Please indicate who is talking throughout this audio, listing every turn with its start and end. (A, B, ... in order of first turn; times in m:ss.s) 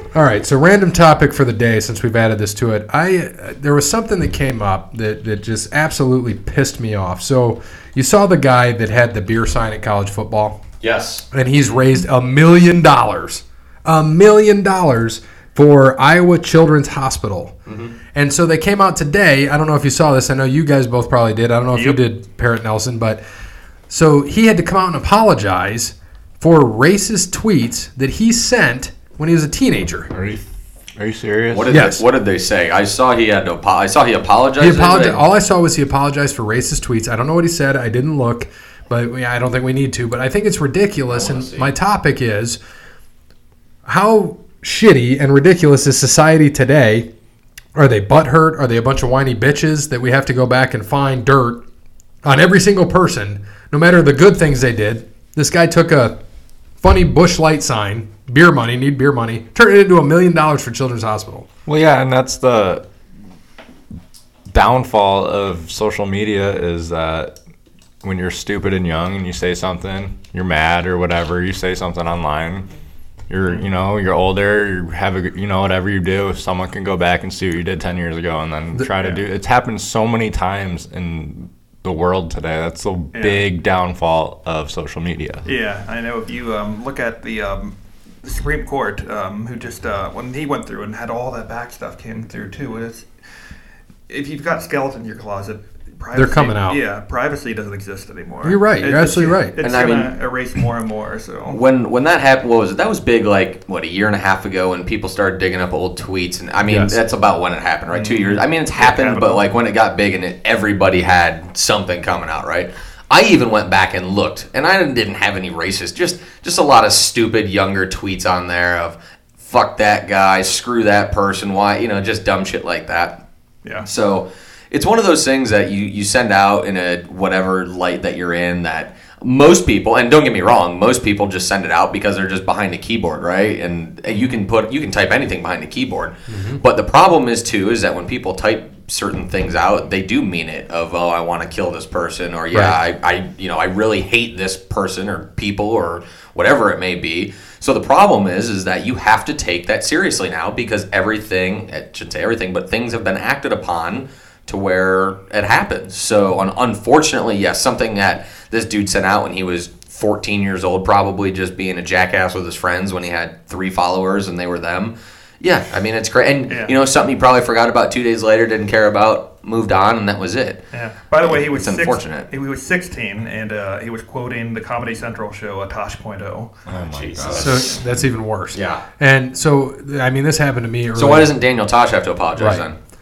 0:00.1-0:10.6 A
0:10.8-0:11.2 B
0:11.3-0:17.5 A
0:17.7-0:17.9 B
0:18.1-0:23.2 A
0:21.7-0:22.0 C
0:23.9-0:30.1 A
0:30.1-0:31.7 D
0:31.5-0:35.2 B
0:31.7-0:32.0 A
0:34.6-0:42.6 A
0:41.1-0:41.7 B
0:43.8-0:47.1 A
0:47.7-0:51.6 A
0:52.2-0:56.2 A
0:56.8-1:01.5 A
1:01.6-1:02.8 D
1:04.5-1:07.3 D
1:08.0-1:12.7 D
1:13.3-1:25.4 D
1:19.0-1:19.2 C
1:23.1-1:23.4 C
1:25.4-1:33.1 C
1:34.1-1:41.6 C
1:36.1-1:36.8 A
1:38.4-1:39.6 A
1:39.6-1:40.1 B
1:41.5-2:03.2 B
1:46.6-1:47.0 A
1:47.9-1:49.4 C
2:03.8-2:50.6 B
2:16.3-2:16.6 A
2:46.5-2:46.7 C
2:50.7-2:56.5 C
2:51.2-2:52.3 B
2:56.7-2:57.6 D
2:56.8-2:57.8 B
2:57.3-3:01.3 A
2:58.5-2:58.8 B
3:00.9-3:02.8 B
3:02.4-3:02.6 A